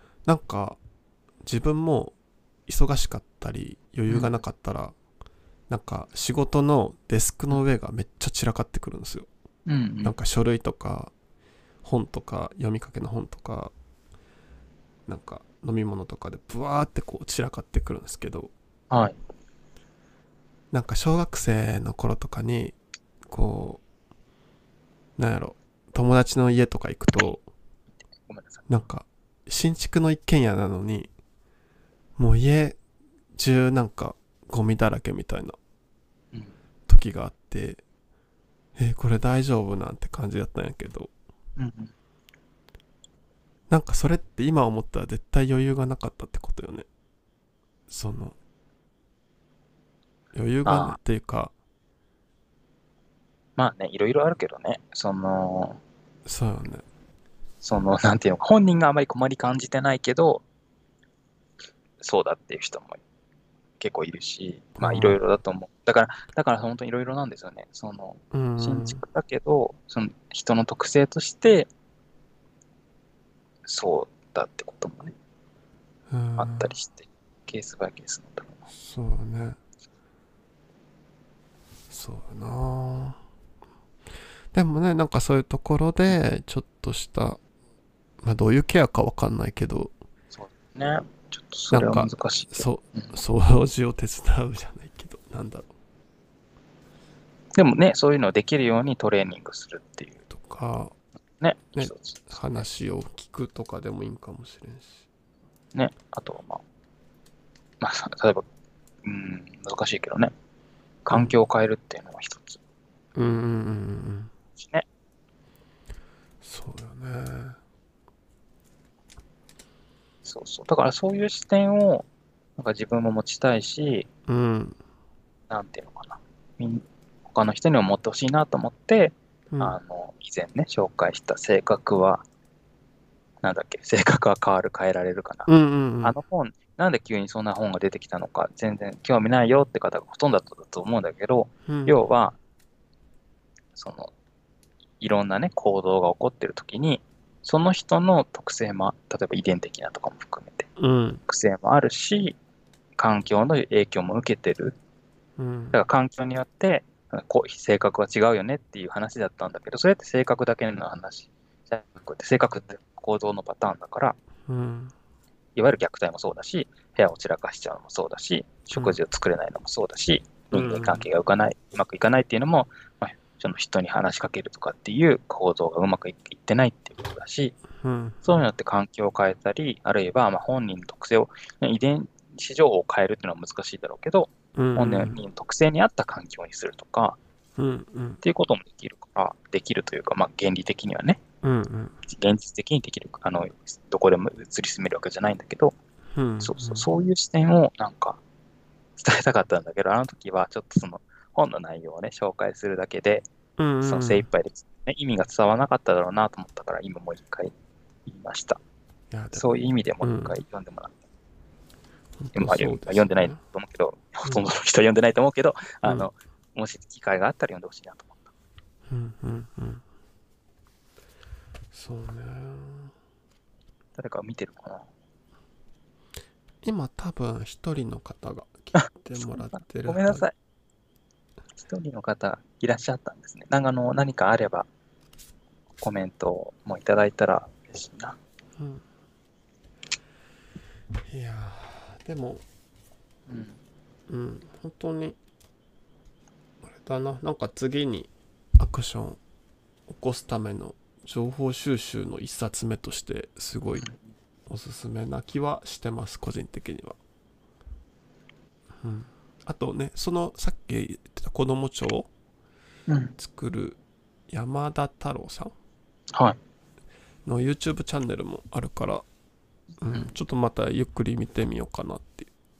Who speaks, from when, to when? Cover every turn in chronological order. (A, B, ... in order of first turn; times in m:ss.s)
0:00.2-0:00.8 A
0:01.4-0:02.1 A
0:02.7-0:05.0 A
0:05.7-0:09.3 A
0:09.7-0:10.2 B
0:10.0-0:11.1 A
0:11.8-0:13.7 A
0:15.1-0:18.5 A
0:18.9-0:19.2 B
0:20.7-0:22.8 A
0:23.3-0:23.8 A
0:25.2-0:27.4 A
0:28.3-0:28.7 B
0:28.7-0:31.1 A
0:32.2-0:32.8 A
0:33.4-0:35.6 A
0:36.9-0:37.8 A
0:38.8-0:41.1 A
0:41.6-0:41.9 B
0:43.7-0:46.9 A
0:47.9-0:48.4 A
0:50.3-0:51.5 A
0:50.7-0:51.0 B
0:53.6-0:55.8 B
0:56.3-0:56.8 A
0:57.6-1:00.4 B
1:02.0-1:03.0 B
1:03.8-1:11.7 B
1:04.8-1:05.2 A
1:08.3-1:09.0 A
1:13.6-1:15.1 B
1:16.1-1:16.7 A
1:16.4-1:18.6 B
1:18.7-1:19.6 A
1:21.9-1:23.2 A
1:24.5-1:27.4 A
1:28.2-1:29.9 A
1:30.3-1:33.1 B
1:31.7-1:35.7 A
1:37.6-1:40.2 B
1:40.3-1:40.9 A
1:41.4-1:42.6 B
1:41.8-1:45.0 A
1:45.7-1:46.6 B
1:47.8-1:48.4 B
1:49.0-1:50.3 B
1:51.0-1:52.6 B
1:53.2-1:54.3 A
1:54.6-1:54.9 B
1:56.4-1:57.6 A
2:00.2-2:02.1 B
2:02.6-2:04.1 B
2:04.3-2:04.8 A
2:05.5-2:12.2 B
2:13.4-2:15.5 B
2:15.5-2:16.2 A
2:16.0-2:22.4 B
2:21.7-2:22.0 A
2:23.8-2:24.1 B
2:25.0-2:30.7 B
2:30.8-2:31.2 A
2:31.3-2:32.4 B
2:33.0-2:34.8 B
2:35.4-2:35.8 A
2:35.7-2:44.2 B
2:44.5-2:44.9 A
2:45.6-2:57.6 B
2:50.5-2:51.1 A
2:57.8-2:58.4 A
2:58.2-3:07.2 B
3:04.6-3:05.2 A
3:07.6-3:08.2 A
3:08.2-3:11.2 B
3:11.4-3:12.0 A
3:12.1-3:15.7 B
3:16.1-3:16.9 A
3:16.4-3:18.2 B
3:19.0-3:23.3 B
3:23.6-3:24.3 A
3:23.8-3:27.5 B
3:28.1-3:28.6 B
3:29.1-3:29.4 A
3:29.3-3:31.0 B
3:30.0-3:30.4 A
3:32.2-3:33.4 A
3:32.4-3:38.3 B
3:38.9-3:39.8 A
3:41.7-3:42.9 A
3:44.0-3:44.9 B
3:46.6-3:50.3 A
3:48.8-3:50.3 B
3:51.6-3:54.7 B
3:55.8-3:58.2 B
3:58.6-3:58.8 A
4:01.1-4:02.4 A
4:03.3-4:03.6 B
4:04.1-4:05.2 A
4:06.6-4:09.2 A
4:09.9-4:13.9 A
4:14.5-4:17.0 A
4:18.8-4:22.1 A
4:22.9-4:23.2 B
4:23.2-4:25.5 A
4:26.1-4:26.4 B
4:27.2-4:29.0 A
4:29.8-4:32.3 A